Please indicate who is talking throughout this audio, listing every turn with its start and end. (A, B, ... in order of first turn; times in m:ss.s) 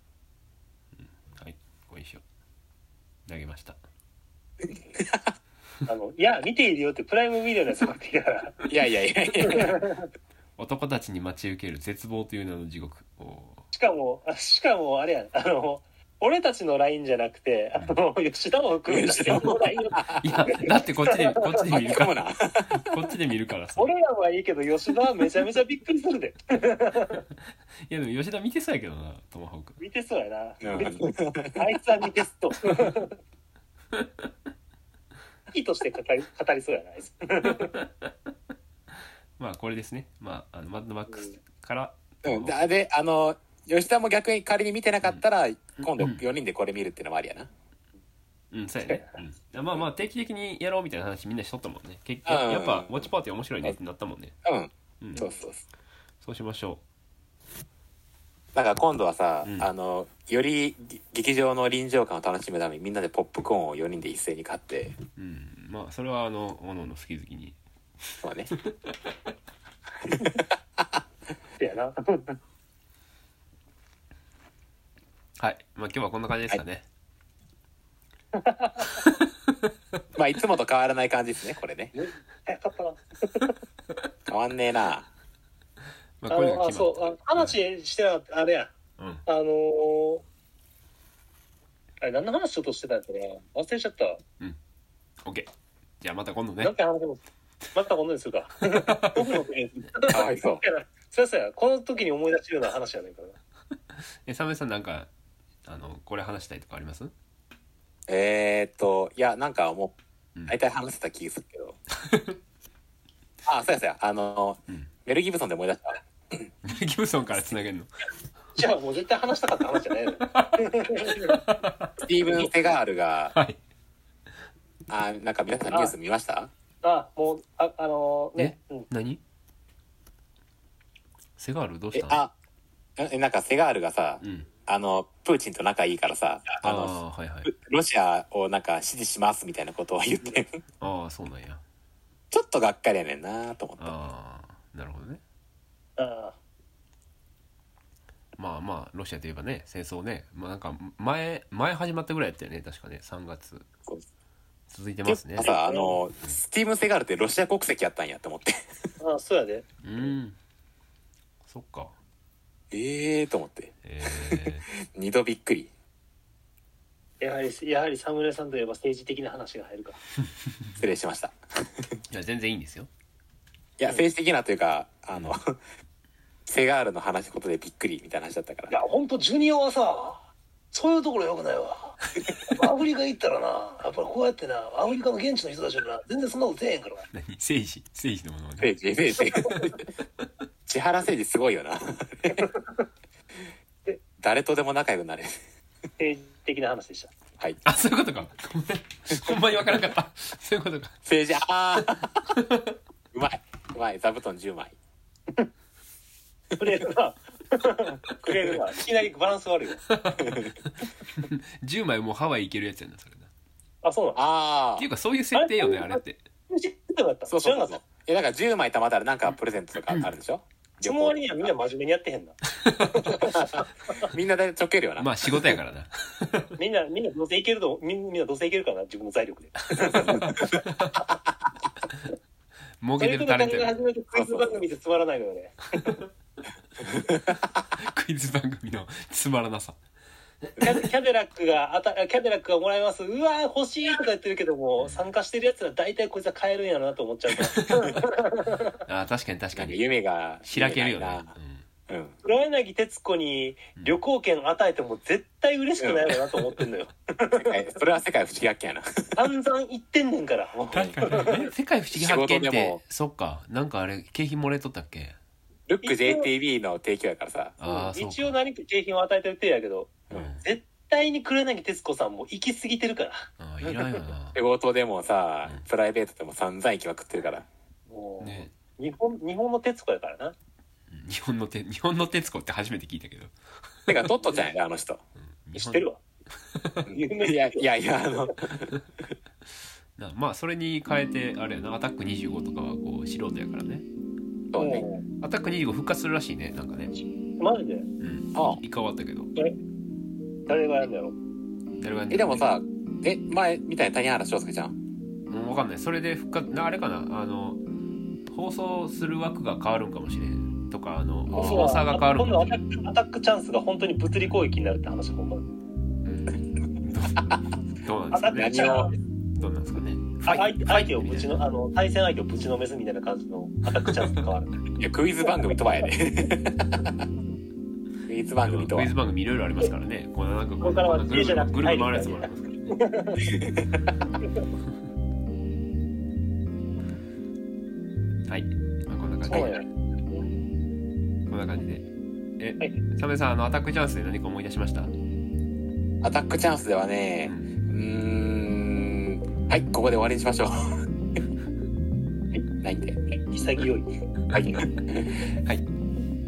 0:01.0-0:02.2 A
0:03.3-0:03.8 A
0:04.7-0:05.3 B
0:05.9-0:08.7 C
0:08.7-0:09.8 B
0:09.4-0:10.1 C
0:10.6-0:13.6 A
0:13.7-0:21.6 C
0:18.9-0:19.6 B
0:20.2-0:22.1 A
0:21.7-0:22.9 B
0:22.7-0:23.9 A
0:23.8-0:27.2 C
0:27.9-0:29.8 A
0:29.8-0:30.9 C
0:30.6-0:31.6 B
0:31.6-0:33.2 C
0:33.9-0:34.3 A
0:35.5-0:37.8 C
0:37.4-0:38.1 A
0:39.4-0:42.6 A
0:42.2-0:47.5 B
0:45.8-0:46.2 A
0:48.5-0:54.3 A
0:52.3-0:53.1 B
0:54.4-0:55.6 B
0:56.2-0:56.8 A
0:58.6-1:05.0 B
0:59.4-0:59.7 A
1:05.2-1:07.6 A
1:08.2-1:08.5 B
1:08.6-1:08.9 A
1:10.1-1:10.4 B
1:11.6-1:12.4 C
1:15.4-1:16.9 A
1:18.3-1:18.9 C
1:19.0-1:19.7 A
1:20.2-1:21.9 B
1:22.0-1:23.6 C
1:24.3-1:25.1 B
1:26.2-1:27.6 A
1:26.3-1:28.7 C
1:29.0-1:29.2 A
1:29.3-1:30.2 C
1:32.0-1:34.2 C
1:35.2-1:36.7 A
1:36.6-1:37.2 C
1:37.7-1:43.4 C
1:38.7-1:39.4 A
1:40.1-1:40.6 B
1:44.2-1:45.1 A
1:45.6-1:47.1 A
1:48.1-1:50.0 B
1:50.5-1:51.8 B
1:52.0-1:52.4 A
1:53.4-1:56.0 B
1:56.6-1:57.9 A
1:58.6-2:01.4 C
2:00.3-2:01.9 A
2:02.0-2:03.4 B
2:04.9-2:06.5 B
2:05.7-2:05.9 C
2:06.8-2:08.9 C
2:08.4-2:09.2 A
2:11.4-2:12.2 A
2:11.9-2:12.3 B
2:13.0-2:20.6 B
2:14.2-2:14.5 A
2:16.6-2:17.5 A
2:20.8-2:21.6 A
2:22.3-2:24.0 B
2:23.8-2:25.2 A
2:26.0-2:26.4 C
2:28.4-2:33.7 A
2:34.7-2:35.5 A
2:35.1-2:38.9 B
2:35.4-2:36.0 C
2:39.0-2:39.7 C
2:39.8-2:40.4 A
2:41.5-2:41.9 A
2:42.7-2:45.7 B
2:43.8-2:44.7 A
2:47.2-2:50.0 C
2:50.8-2:51.9 B
2:52.1-2:52.9 A
2:53.8-2:55.6 B
2:56.5-2:58.7 B
2:58.7-3:07.1 C
3:07.1-3:08.8 A
3:08.6-3:09.8 B
3:09.5-3:09.8 A
3:10.7-3:12.5 B
3:12.3-3:12.8 C
3:14.2-3:15.4 B
3:16.0-3:17.1 C
3:17.6-3:21.0 A
3:21.0-3:22.3 B
3:22.3-3:22.8 A
3:23.1-3:24.8 B
3:26.6-3:29.8 C
3:29.9-3:33.3 A
3:30.2-3:30.5 B
3:33.8-3:34.2 C
3:34.2-3:34.9 B
3:34.8-3:36.2 A
3:35.4-3:37.8 C
3:37.3-3:41.5 B
3:40.8-3:42.4 C
3:42.6-3:43.1 A
3:42.9-3:44.0 C
3:43.3-3:45.1 B
3:45.0-3:46.6 A
3:46.6-3:50.6 C
3:49.7-3:51.0 A
3:52.8-3:53.7 A
3:53.0-3:56.0 C
3:54.1-3:54.6 B
3:56.9-3:57.2 B
3:57.8-3:59.8 A
4:00.4-4:00.8 A
4:00.6-4:08.8 C
4:04.8-4:05.1 A
4:07.4-4:08.1 A
4:08.9-4:09.8 A
4:09.5-4:11.3 B
4:10.4-4:11.6 A
4:11.9-4:12.1 B
4:12.2-4:17.7 C
4:15.8-4:16.2 B
4:17.3-4:19.2 B
4:19.2-4:21.5 C
4:20.7-4:25.2 A
4:21.9-4:22.8 B
4:25.7-4:27.6 B
4:25.8-4:26.3 C
4:27.6-4:28.4 A
4:27.6-4:33.8 C
4:30.1-4:30.4 A
4:33.4-4:34.4 A
4:34.4-4:37.5 B
4:37.9-4:40.4 C
4:38.2-4:38.5 A
4:40.9-4:43.3 A
4:43.9-4:45.0 B
4:45.2-4:45.9 A
4:45.6-4:46.0 C
4:46.4-4:46.9 A
4:46.9-4:48.7 B
4:46.9-4:47.6 C
4:50.0-4:53.8 A
4:54.5-4:54.8 B
4:54.6-4:55.0 C
4:55.2-4:57.0 A
4:57.4-4:57.9 C
4:58.0-4:59.3 A
4:58.3-4:58.6 B
5:00.5-5:01.1 C
5:01.8-5:02.5 A
5:02.1-5:04.8 B
5:05.3-5:07.6 A
5:08.3-5:12.6 A
5:11.3-5:11.8 B
5:11.3-5:15.5 C
5:16.0-5:18.6 A
5:18.1-5:18.9 C
5:18.4-5:18.9 B
5:19.4-5:21.4 A
5:20.3-5:24.6 C
5:23.9-5:24.2 A
5:24.8-5:26.9 B
5:28.1-5:28.9 B
5:28.4-5:32.8 A
5:30.6-5:33.3 C
5:33.4-5:33.6 B
5:38.3-5:39.6 A
5:39.3-5:40.3 C
5:41.3-5:41.9 A
5:42.4-5:44.9 A
5:46.0-5:50.7 B
5:47.2-5:47.6 A
5:52.3-5:53.0 B
5:53.3-5:53.9 C
5:54.3-5:55.2 B